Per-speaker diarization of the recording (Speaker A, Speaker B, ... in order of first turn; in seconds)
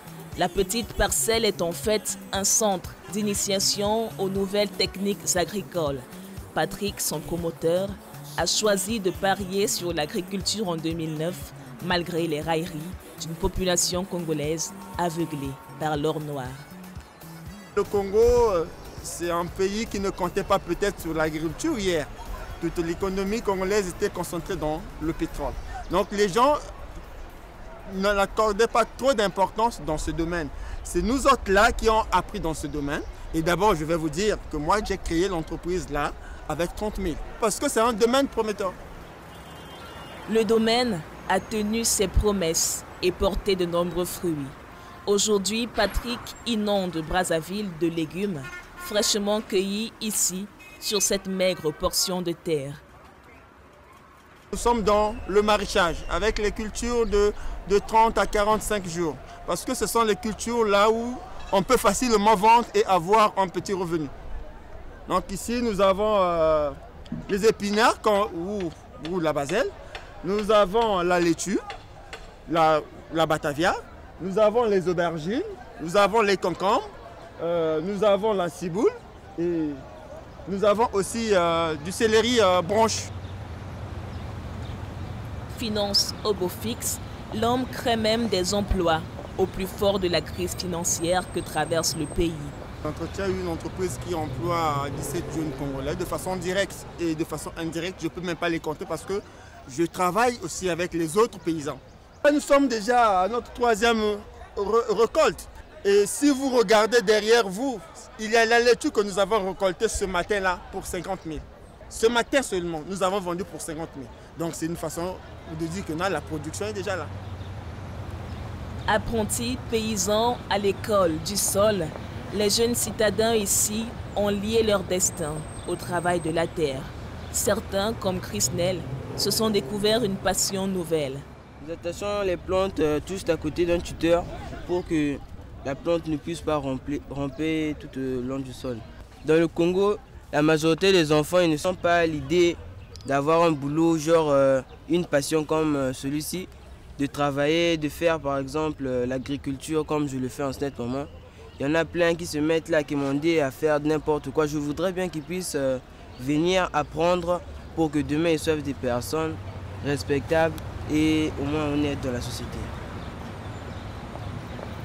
Speaker A: 0.3-16.7, 40.3-52.8, 85.5-92.5, 118.9-131.2
Speaker B: 17.8-22.1, 22.6-26.6, 27.9-38.8, 54.5-64.1, 65.1-66.8, 67.3-69.7, 70.2-71.6, 72.5-76.9, 77.4-79.8, 80.5-83.1, 92.8-117.1
Speaker C: 131.6-162.7